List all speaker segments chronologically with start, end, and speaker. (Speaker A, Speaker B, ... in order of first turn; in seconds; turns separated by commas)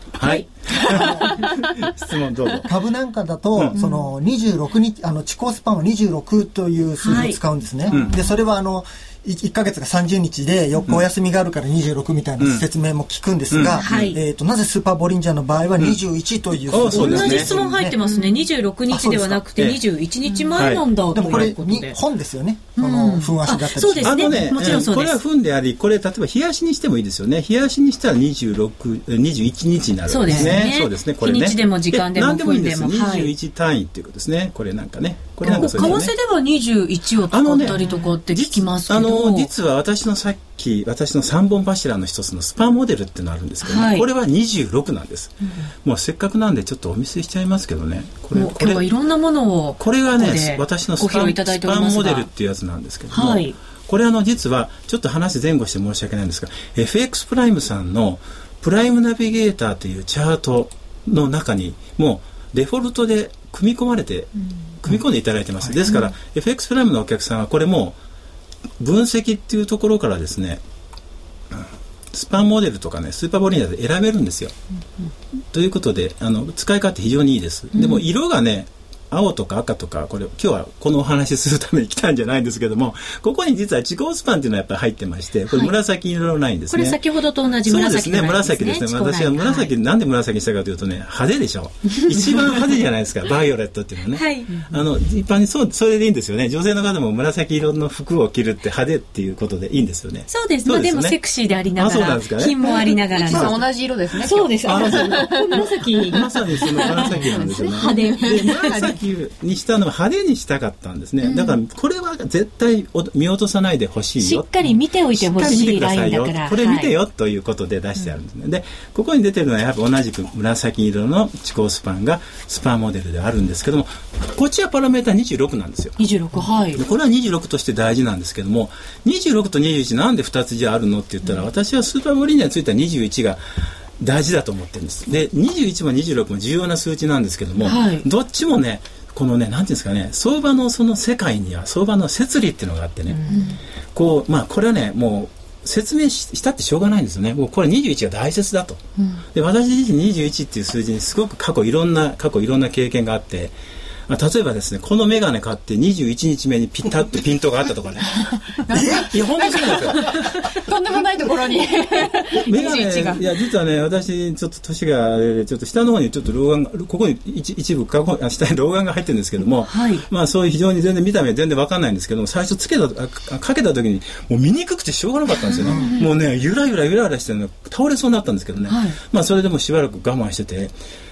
Speaker A: 0.1-2.7, Speaker B: 0.2-1.3, Speaker C: 0.8-1.4, Speaker C: 2.6-18.0, Speaker B: 7.0-7.4, Speaker A: 7.9-8.2, Speaker A: 13.5-14.2, Speaker B: 13.7-14.2, Speaker A: 16.7-17.6, Speaker B: 16.9-22.0, Speaker C: 18.9-19.5, Speaker A: 19.6-19.8, Speaker D: 20.3-20.6, Speaker A: 20.6-21.5, Speaker C: 21.1-24.8, Speaker B: 22.8-25.2, Speaker A: 24.0-36.1, Speaker B: 30.1-33.3, Speaker C: 30.3-30.6, Speaker B: 35.4-39.5, Speaker A: 37.3-48.9, Speaker D: 37.8-38.1, Speaker B: 43.6-44.0, Speaker B: 48.3-52.3, Speaker A: 49.8-68.0, Speaker B: 53.1-53.5, Speaker A: 68.8-70.6, Speaker A: 71.5-74.5, Speaker A: 75.5-87.0, Speaker B: 77.7-78.0, Speaker B: 86.7-89.7, Speaker A: 87.7-101.2, Speaker B: 94.1-94.5, Speaker B: 100.3-103.7, Speaker A: 101.7-102.7, Speaker D: 102.6-105.5, Speaker A: 103.3-103.6, Speaker B: 104.2-108.6, Speaker A: 104.6-133.4, Speaker D: 106.8-108.9, Speaker B: 111.2-111.6, Speaker B: 114.2-116.9, Speaker B: 126.0-126.8, Speaker A: 134.0-143.2, Speaker B: 137.6-138.1, Speaker B: 143.3-143.6, Speaker A: 143.9-148.8, Speaker B: 149.0-149.2, Speaker A: 149.3-153.5, Speaker A: 154.1-160.1, Speaker D: 158.7-163.2, Speaker C: 158.7-159.1, Speaker A: 162.4-180.7, Speaker B: 169.6-170.0, Speaker C: 175.6-175.9, Speaker B: 175.7-176.1, Speaker B: 178.7-179.0